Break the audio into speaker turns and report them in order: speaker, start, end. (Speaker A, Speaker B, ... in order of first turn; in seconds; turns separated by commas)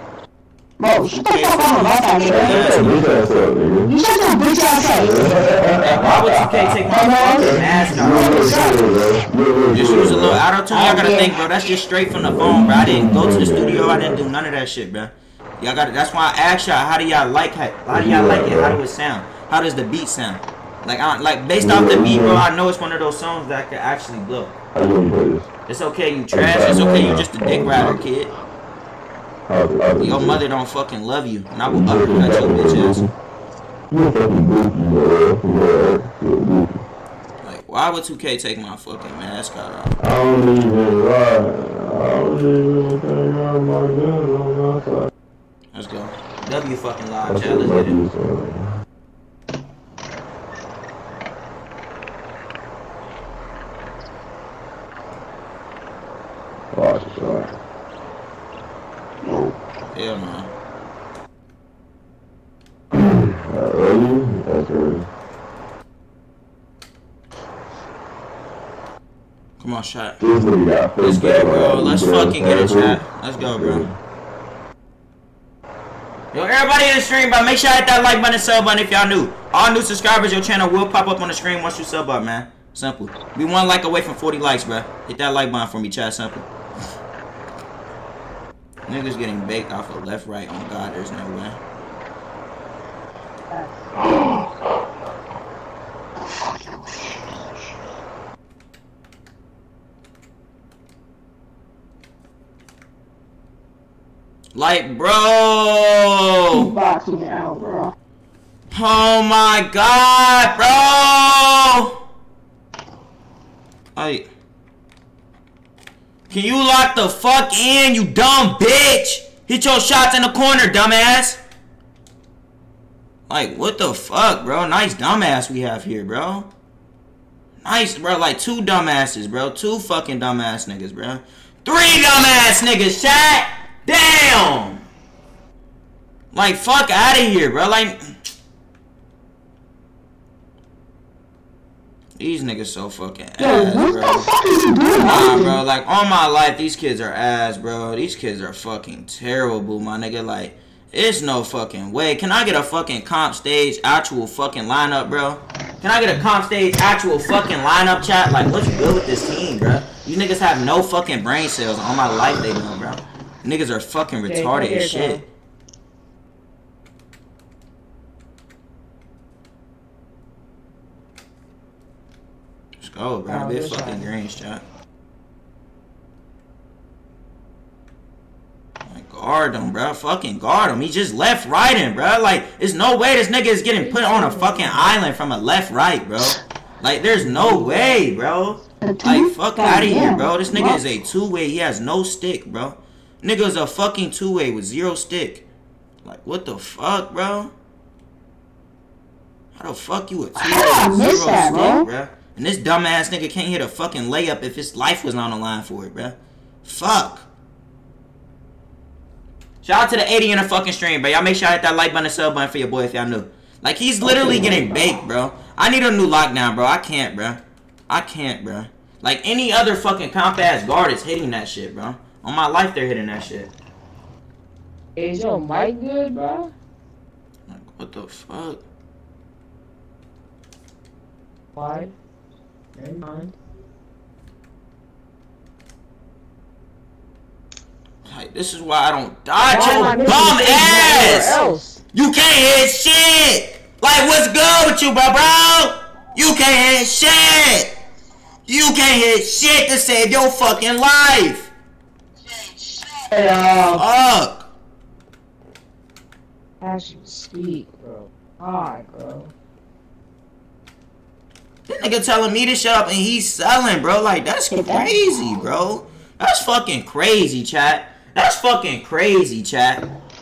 Speaker A: 0.8-2.9, Speaker B: 1.1-3.0, Speaker C: 2.3-3.9, Speaker A: 3.9-8.9, Speaker C: 5.1-6.3, Speaker B: 5.8-8.5, Speaker C: 7.6-10.4, Speaker B: 9.7-24.6, Speaker A: 10.7-11.4, Speaker C: 12.1-14.2, Speaker C: 17.9-18.8, Speaker C: 21.6-22.4, Speaker C: 24.7-25.5, Speaker B: 25.7-28.3, Speaker C: 26.3-28.0, Speaker C: 29.5-30.4, Speaker B: 30.0-33.1, Speaker C: 31.7-33.1, Speaker C: 33.9-36.8, Speaker B: 37.4-40.0, Speaker C: 40.0-45.1, Speaker B: 45.7-48.0, Speaker C: 47.3-48.7, Speaker C: 56.7-57.5, Speaker C: 59.3-59.5, Speaker B: 59.9-60.5, Speaker C: 62.9-65.1, Speaker B: 69.6-70.2, Speaker C: 70.2-74.0, Speaker B: 71.0-73.9, Speaker B: 76.3-86.5, Speaker B: 88.9-91.6, Speaker B: 104.5-106.7, Speaker A: 106.5-107.9, Speaker B: 108.7-112.0, Speaker B: 114.0-114.3, Speaker B: 116.3-121.4, Speaker B: 123.3-126.5, Speaker B: 127.6-134.8, Speaker B: 136.3-138.1, Speaker B: 142.2-144.3, Speaker A: 143.4-145.6, Speaker B: 145.0-165.2, Speaker D: 164.3-165.2, Speaker B: 172.8-174.6, Speaker D: 173.3-174.1, Speaker B: 178.9-195.5, Speaker D: 183.8-184.8, Speaker A: 188.8-190.8, Speaker B: 196.0-197.5, Speaker B: 199.6-207.3, Speaker A: 200.4-201.9, Speaker B: 209.6-223.5, Speaker D: 225.0-226.5, Speaker B: 227.5-228.6, Speaker D: 231.6-231.9, Speaker D: 232.8-233.3, Speaker B: 238.1-241.4, Speaker D: 239.5-241.8, Speaker B: 241.9-247.7, Speaker B: 248.5-251.5, Speaker D: 253.1-253.8, Speaker B: 253.7-254.5, Speaker D: 256.6-259.3, Speaker B: 261.7-269.8, Speaker A: 264.5-265.5